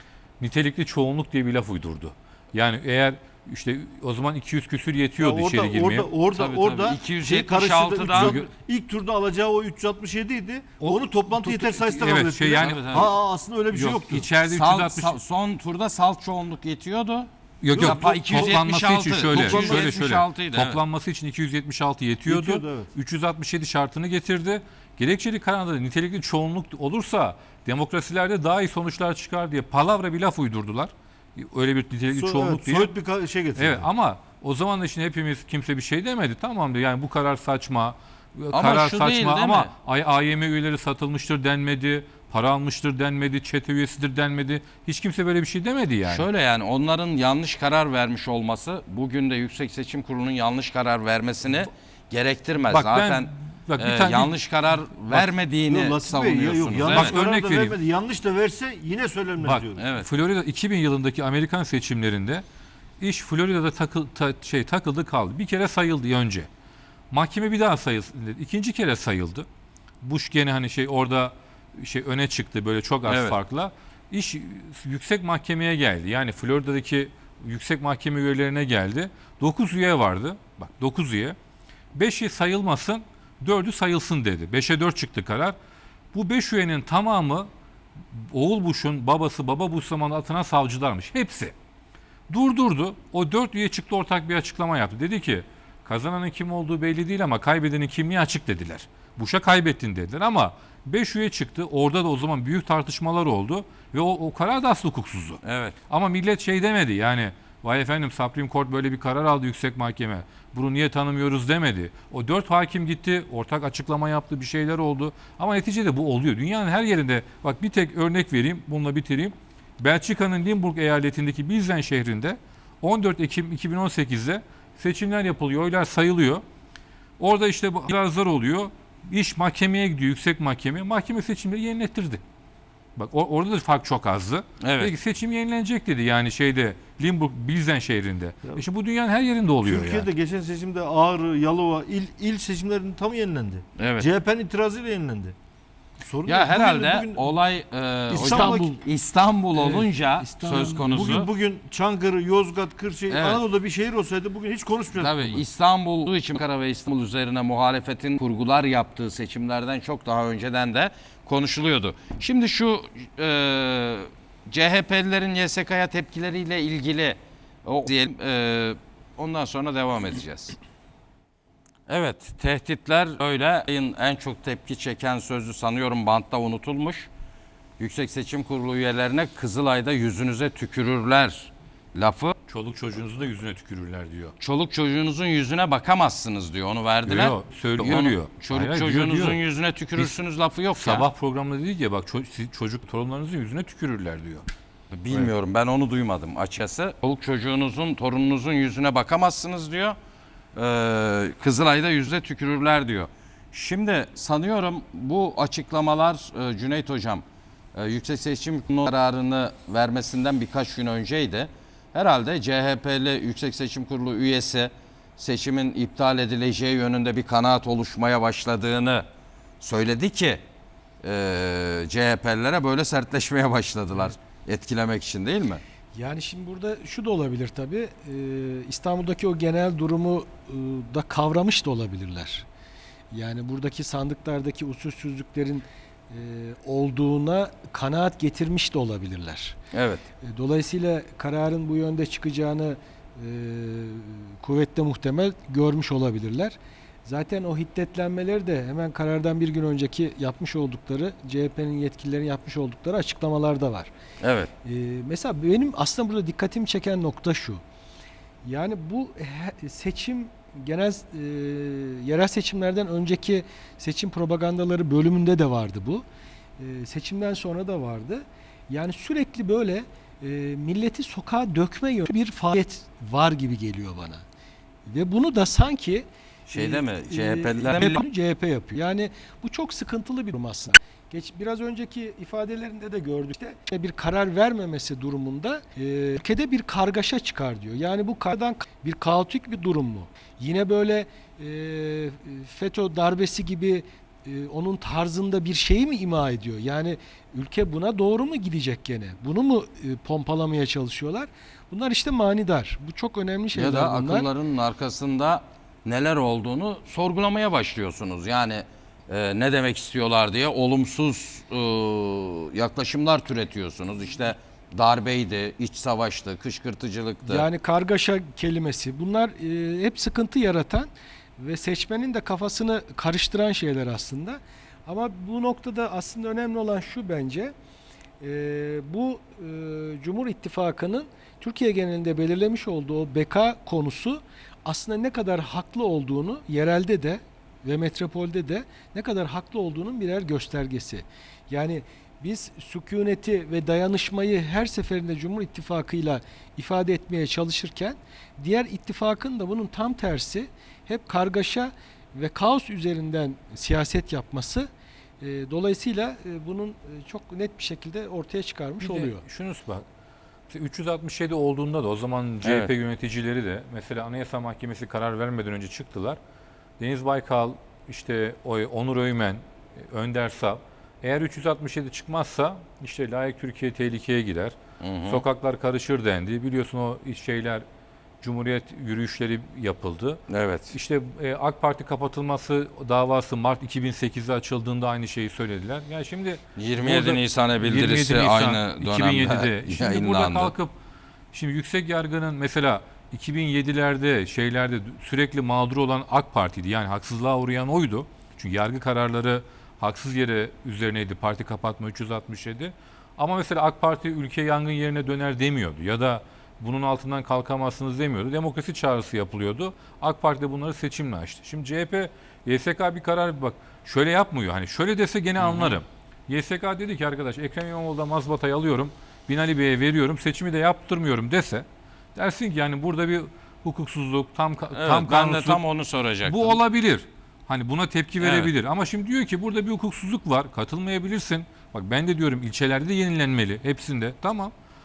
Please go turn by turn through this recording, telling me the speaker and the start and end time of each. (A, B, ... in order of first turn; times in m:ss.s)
0:00.4-0:06.1 A
0:05.2-0:14.3 B
0:06.3-0:08.4 C
0:08.1-0:08.5 A
0:10.8-0:13.1 A
0:12.6-0:13.1 C
0:13.7-0:15.2 A
0:14.5-0:20.8 C
0:17.6-0:32.9 A
0:17.7-0:18.6 B
0:19.3-0:20.0 B
0:22.3-0:22.9 B
0:32.1-0:33.9 B
0:33.6-0:46.3 A
0:38.5-0:39.7 C
0:46.1-0:57.2 C
0:52.7-0:54.4 A
0:55.7-0:59.9 B
0:56.9-0:57.8 A
0:59.4-1:02.4 A
0:59.8-1:00.1 C
1:03.0-1:06.5 A
1:07.1-1:09.5 A
1:10.0-1:21.4 A
1:13.1-1:13.4 C
1:21.9-1:25.6 A
1:26.1-1:27.5 A
1:28.1-1:31.5 A
1:32.3-2:06.4 A
1:45.4-1:45.8 C
2:07.2-2:12.2 A
2:13.0-2:20.1 A
2:14.6-2:14.9 C
2:19.6-2:25.4 B
2:23.8-2:24.1 C
2:26.0-2:27.3 B
2:26.3-2:31.3 C
2:28.1-2:28.8 B
2:28.1-2:28.8 D
2:29.6-2:31.0 D
2:30.8-2:35.4 B
2:33.1-2:33.4 C
2:35.0-2:50.6 C
2:51.9-2:57.1 C
2:57.8-3:02.4 C
3:02.5-3:04.4 A
3:04.4-3:11.1 C
3:07.1-3:09.4 A
3:10.7-3:14.5 A
3:14.9-3:20.0 C
3:20.6-3:39.1 C
3:39.6-3:40.4 C
3:41.0-3:45.6 C
3:46.0-3:52.5 D
3:53.1-3:59.6 D
3:59.7-4:00.0 C
4:00.2-4:13.9 D
4:14.2-4:14.5 C
4:14.6-4:17.6 D
4:18.4-4:26.1 D
4:26.6-4:34.2 D
4:34.9-5:04.3 D
4:36.5-4:38.0 C
5:03.5-5:17.4 C
5:17.2-5:27.5 D
5:28.2-5:54.7 D
5:55.2-5:59.2 D
5:58.8-5:59.9 A
6:00.5-6:06.2 A
6:02.4-6:02.7 C
6:06.8-6:17.6 A
6:14.8-6:15.2 C
6:18.2-6:30.7 A
6:20.3-6:20.8 C
6:26.6-6:30.5 C
6:31.3-7:05.6 A
6:55.4-6:55.8 C
7:04.7-7:06.6 C
7:06.2-7:14.5 A
7:08.2-7:08.5 C